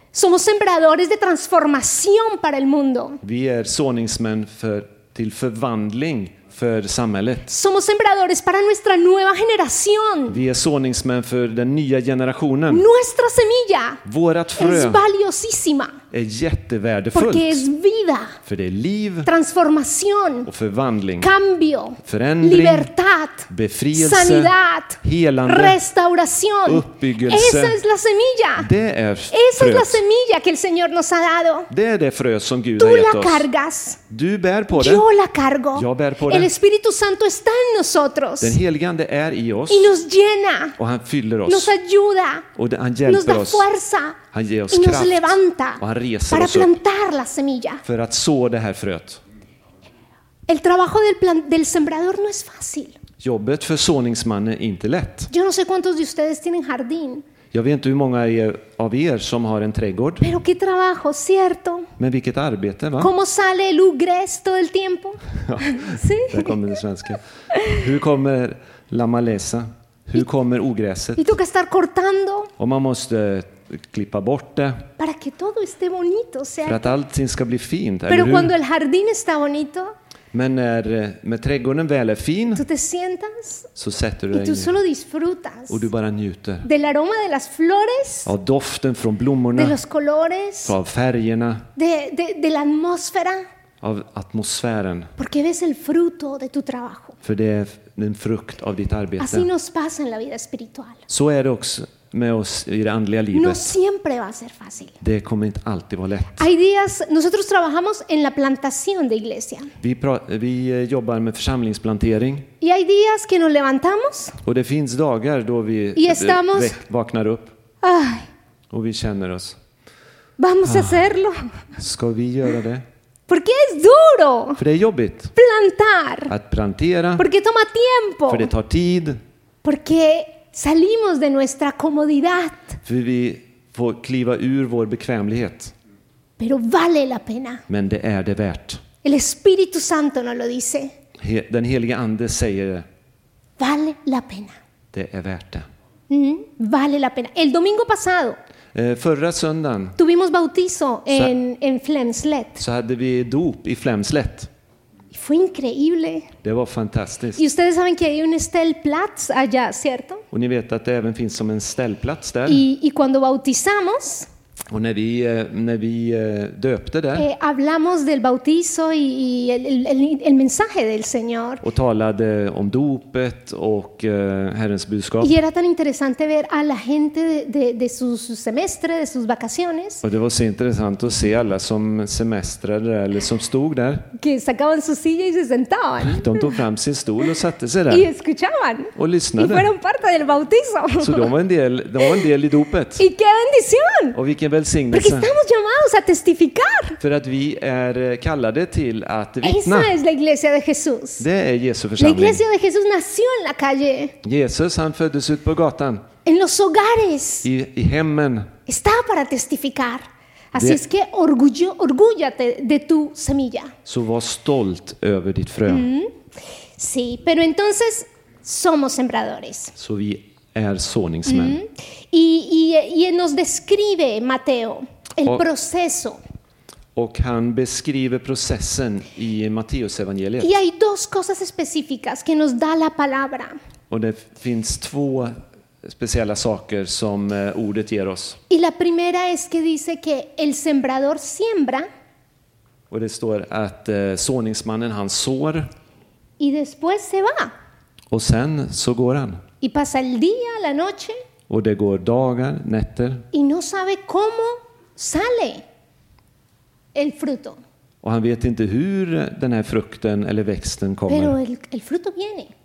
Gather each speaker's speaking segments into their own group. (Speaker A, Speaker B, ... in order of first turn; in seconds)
Speaker A: 0.1-3.2, 7.5-10.4, 12.7-14.0, 14.6-16.0, 17.1-18.4, 19.2-20.5, 21.2-28.7, 29.3-31.7, 32.8-34.0, 34.7-38.6, 39.7-40.8, 41.5-42.5, 43.0-47.8, 50.5-53.0, 55.3-57.2, 60.2-61.9, 63.0-66.6, 67.5-67.8, 71.2-72.5, 75.0-77.0, 78.1-79.9, 82.5-83.7, 84.3-85.9, 86.6-88.3, 89.5-90.8, 91.8-93.4, 95.2-97.2, 99.2-101.0, 103.3-104.9, 106.3-109.7, 112.6-114.4, 116.0-116.8, 117.8-118.3, 120.4-121.7, 123.3-124.6, 125.3-126.3, 127.2-128.5, 129.6-132.8, 136.4-137.6, 139.0-140.9, 143.6-144.6, 146.1-148.4, 150.0-152.6, 155.1-156.3, 157.3-160.2, 162.5-164.3, 167.1-171.6, 175.2-180.0, 184.2-186.6, 187.9-191.3, 193.0-194.2, 194.9-197.0, 199.4-201.2, 202.0-204.1, 206.2-207.4, 208.7-213.7, 215.7-216.1, 216.8-219.7, 221.3-226.2, 230.4-233.6, 238.5-241.9, 246.4-247.5, 249.6-251.2, 253.3-255.6, 256.9-257.6, 261.1-262.5
Speaker B: 3.2-7.5, 10.3-12.8, 14.0-15.0, 16.1-17.6, 18.4-19.3, 20.4-21.3, 22.0-22.9, 23.5-25.8, 26.6-27.8, 28.6-30.0, 31.7-33.5, 34.1-35.0, 35.7-36.5, 38.4-39.9, 40.8-41.7, 42.5-43.6, 44.3-46.7, 47.8-49.2, 53.2-55.3, 57.5-60.3, 62.0-63.1, 65.4-71.3, 72.6-74.9, 76.6-78.5, 80.3-82.6, 83.8-84.8, 85.7-86.7, 88.2-89.8, 90.6-91.7, 93.8-95.1, 97.2-99.5, 101.1-103.7, 105.0-106.5, 109.8-112.5, 114.4-117.5, 118.7-119.6, 120.7-121.0, 121.8-122.8, 124.6-125.3, 126.3-127.2, 128.3-129.2, 132.8-135.7, 137.7-138.8, 141.2-142.9, 144.9-145.7, 148.7-150.0, 152.6-154.5, 156.4-157.4, 160.3-162.6, 164.7-167.3, 171.6-175.3, 180.0-184.1, 186.0-188.1, 188.9-189.7, 191.0-193.0, 194.1-195.3, 197.0-199.9, 201.2-202.4, 204.2-206.0, 207.4-208.5, 210.5-210.8, 213.8-215.9, 219.8-221.6, 226.9-230.5, 233.9-238.4, 242.9-245.7, 248.1-249.4, 251.5-253.2, 258.0-261.4